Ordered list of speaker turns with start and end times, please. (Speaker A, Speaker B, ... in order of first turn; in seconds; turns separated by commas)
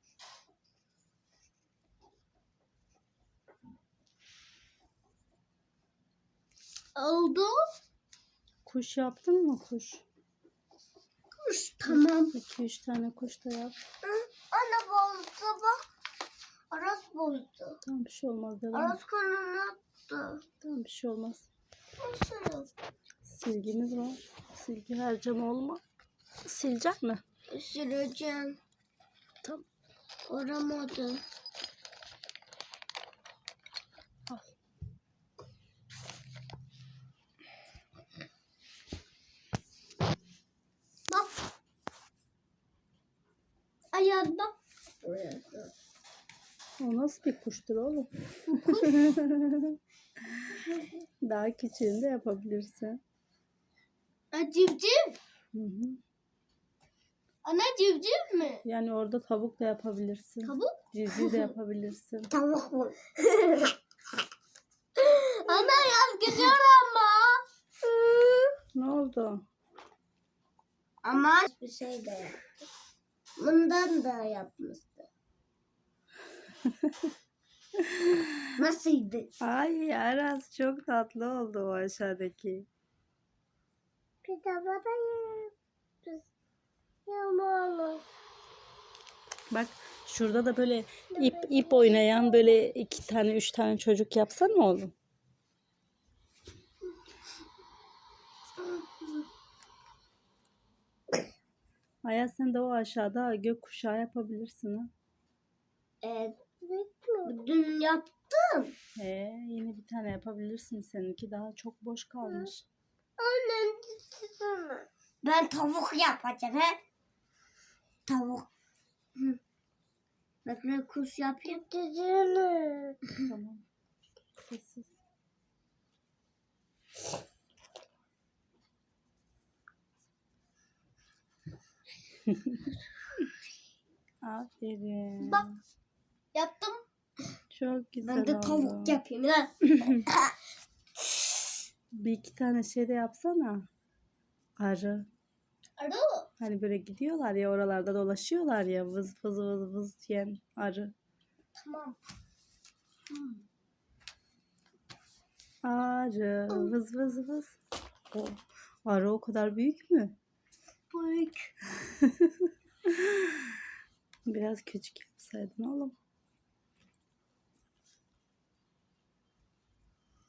Speaker A: 7.0-7.6, Speaker B: 8.7-10.0, Speaker C: 11.4-12.4, Speaker B: 11.9-13.8, Speaker C: 14.0-15.8, Speaker C: 16.7-17.8, Speaker B: 17.8-19.0, Speaker C: 18.7-20.4, Speaker B: 20.6-21.5, Speaker C: 22.0-22.7, Speaker B: 23.3-25.8, Speaker B: 26.4-27.2, Speaker C: 27.5-28.6, Speaker C: 30.3-31.2, Speaker A: 43.9-44.5, Speaker C: 45.0-45.7, Speaker B: 46.8-49.8, Speaker A: 48.5-49.0, Speaker B: 51.2-53.0, Speaker A: 54.3-55.2, Speaker B: 55.5-56.0, Speaker A: 57.4-58.6, Speaker B: 58.6-62.3, Speaker A: 60.4-60.8, Speaker C: 62.3-63.8, Speaker C: 65.0-66.5, Speaker A: 65.5-67.4, Speaker C: 67.8-68.5, Speaker B: 68.8-69.4, Speaker C: 71.0-72.5, Speaker C: 73.4-75.1, Speaker B: 76.8-77.1, Speaker B: 77.8-78.5, Speaker C: 78.6-79.3, Speaker B: 79.4-82.7, Speaker C: 84.2-85.5, Speaker C: 87.1-88.0, Speaker B: 89.5-94.9, Speaker C: 91.3-92.1, Speaker B: 102.0-104.9, Speaker C: 106.0-108.7, Speaker A: 106.7-107.1, Speaker B: 109.0-112.7, Speaker C: 113.2-116.8, Speaker C: 118.1-118.5, Speaker C: 120.5-123.1, Speaker A: 121.8-122.8, Speaker B: 123.2-123.6, Speaker B: 124.4-124.9, Speaker B: 134.2-135.6, Speaker A: 136.3-136.8, Speaker B: 137.5-139.0, Speaker C: 138.0-140.3, Speaker B: 142.0-143.6, Speaker B: 144.6-145.1, Speaker A: 145.8-146.1, Speaker C: 146.0-146.3, Speaker B: 146.4-150.9, Speaker C: 151.6-152.0, Speaker C: 153.1-153.4, Speaker B: 155.6-157.6, Speaker B: 158.1-160.2, Speaker C: 160.9-161.5, Speaker B: 161.7-163.5, Speaker B: 164.3-165.9